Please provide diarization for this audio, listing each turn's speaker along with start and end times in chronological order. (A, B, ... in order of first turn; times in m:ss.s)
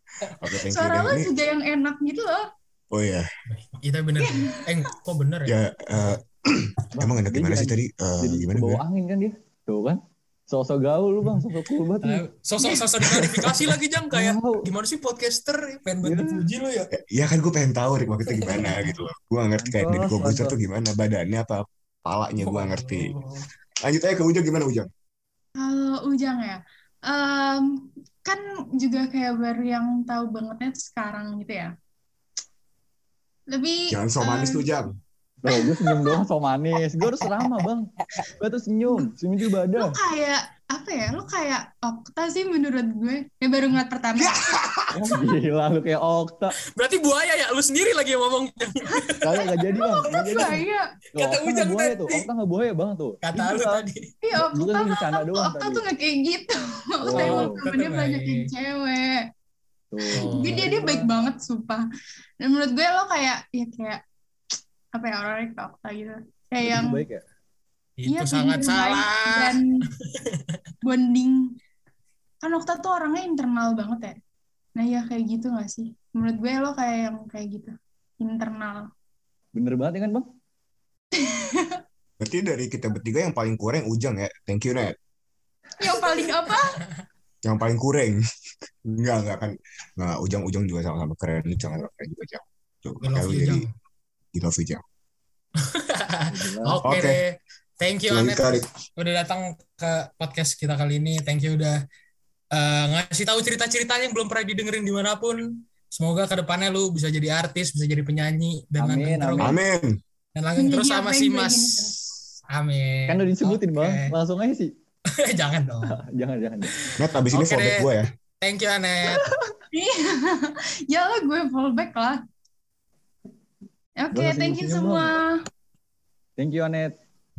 0:00.3-0:01.3 A
0:00.7-0:02.5 B
0:02.9-0:03.3 A
0:03.5-0:06.2 C
0:04.2-0:04.7 B
0:05.5-0:08.8 A
0:07.0-0:12.2 D
0:12.0-0:16.9 C
0:13.0-0:13.7 A
0:14.1-0:14.7 D
0:16.0-0:16.4 D
0:16.9-0:23.1 A
0:18.4-0:19.0 C
0:19.6-0:20.6 D
0:22.4-0:23.5 C
0:23.8-0:24.9 A
0:25.6-0:31.7 B
0:33.5-0:34.8 B
0:33.9-0:34.9 A
0:35.4-0:40.0 D
0:35.5-0:36.2 B
0:39.7-0:44.5 B
0:44.2-0:45.2 A
0:44.9-0:46.6 D
0:46.7-0:49.5 C
0:48.9-0:50.8 B
0:49.2-0:50.6 D
0:50.1-0:50.6 C
0:51.2-0:52.3 C
0:51.2-0:55.8 D
0:53.2-0:54.1 C
0:54.2-0:59.3 B
0:57.0-0:57.6 D
0:57.2-0:58.5 C
0:59.9-1:01.1 D
1:00.1-1:00.7 C
1:00.3-1:01.8 B
1:02.4-1:04.0 B
1:04.9-1:07.0 B
1:06.6-1:07.2 D
1:08.0-1:10.6 C
1:08.1-1:09.8 B
1:10.8-1:11.5 B
1:12.4-1:14.2 B
1:14.8-1:18.9 B
1:19.5-1:20.3 D
1:21.1-1:21.8 B
1:22.2-1:25.0 A
1:25.8-1:26.8 B
1:26.6-1:26.9 C
1:27.4-1:28.2 A
1:28.8-1:33.7 A
1:33.0-1:33.7 C
1:34.3-1:34.8 A
1:35.6-1:41.8 C
1:36.3-1:36.8 D
1:36.8-1:37.2 A
1:38.1-1:38.7 A
1:42.5-1:49.6 C
1:48.8-1:49.6 D
1:49.4-1:50.0 A
1:50.4-1:54.2 C
1:50.6-1:52.0 B
1:53.1-1:54.7 D
1:55.1-1:56.0 C
1:55.9-1:56.9 D
1:56.8-1:57.9 C
1:57.0-1:58.1 A
1:58.4-1:59.3 C
1:59.1-1:59.5 D
1:59.7-2:02.2 B
2:04.0-2:05.4 B
2:04.1-2:05.1 D
2:06.4-2:07.0 D